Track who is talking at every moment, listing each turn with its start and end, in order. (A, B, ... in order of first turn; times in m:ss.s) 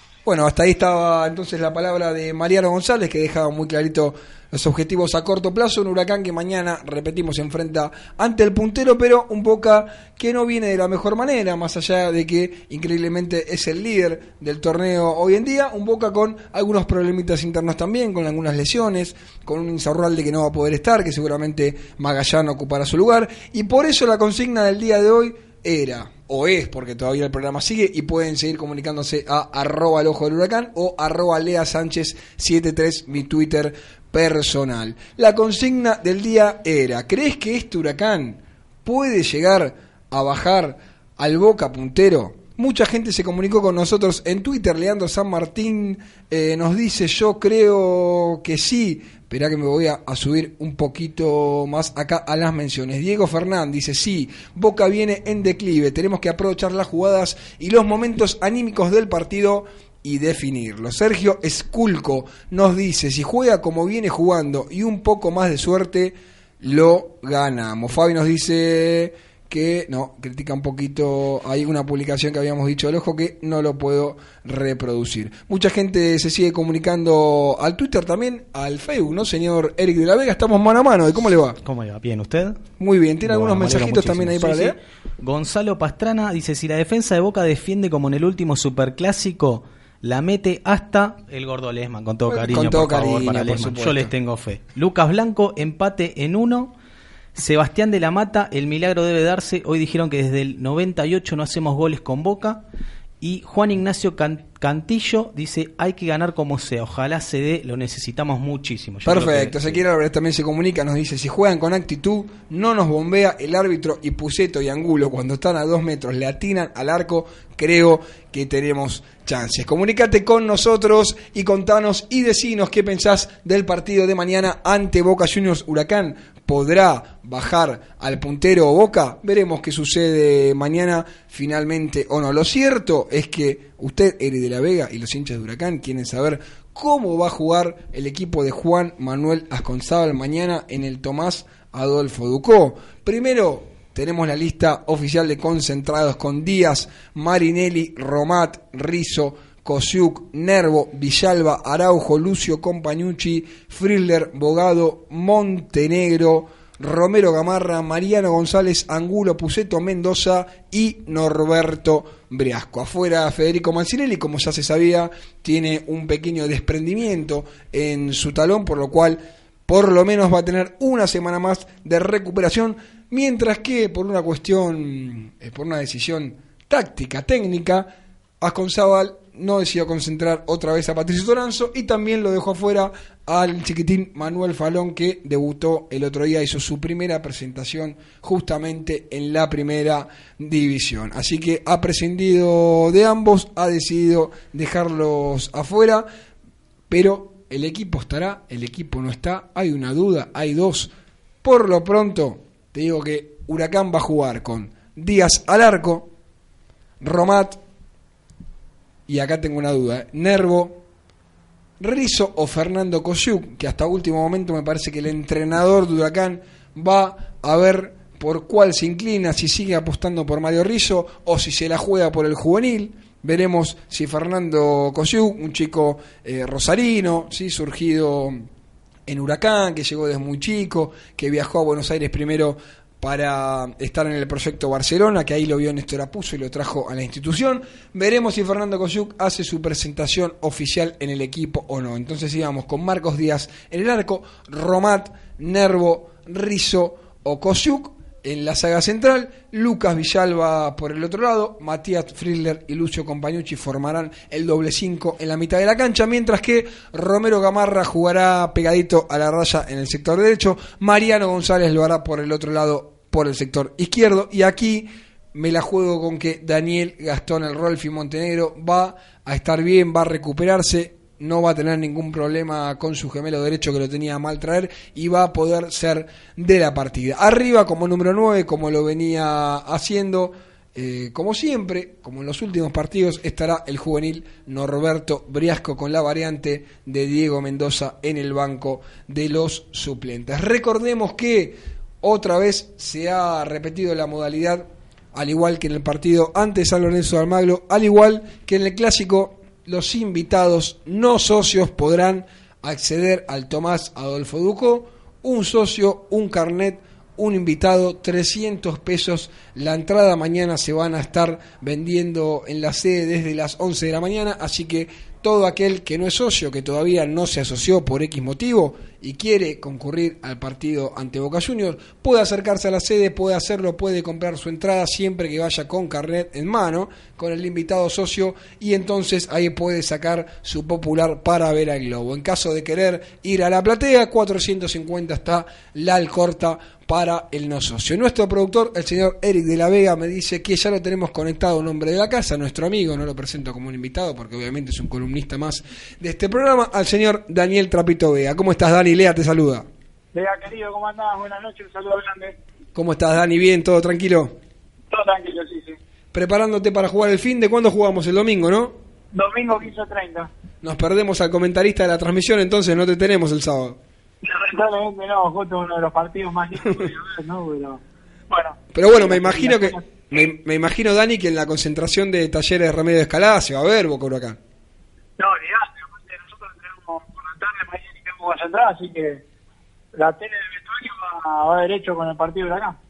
0:00.2-1:21.6 A
1:21.6-1:22.7 B
1:22.8-1:24.8 A
1:23.2-1:36.7 B
1:32.3-1:34.1 A
1:37.4-1:42.6 B
1:43.2-1:49.8 B
1:49.0-3:16.1 A
3:16.9-3:20.9 A
3:21.4-3:26.1 A
3:27.0-3:27.6 A
3:29.1-3:30.8 A
3:31.8-3:48.5 A
3:49.1-5:49.7 A
5:50.1-5:52.4 C
5:52.8-5:54.4 A
5:54.9-5:55.8 C
5:56.1-5:58.8 A
5:59.1-6:00.3 C
6:00.6-6:03.8 A
6:04.2-6:10.2 C
6:08.7-6:14.4 A
6:15.2-6:19.2 C
6:19.9-6:22.8 C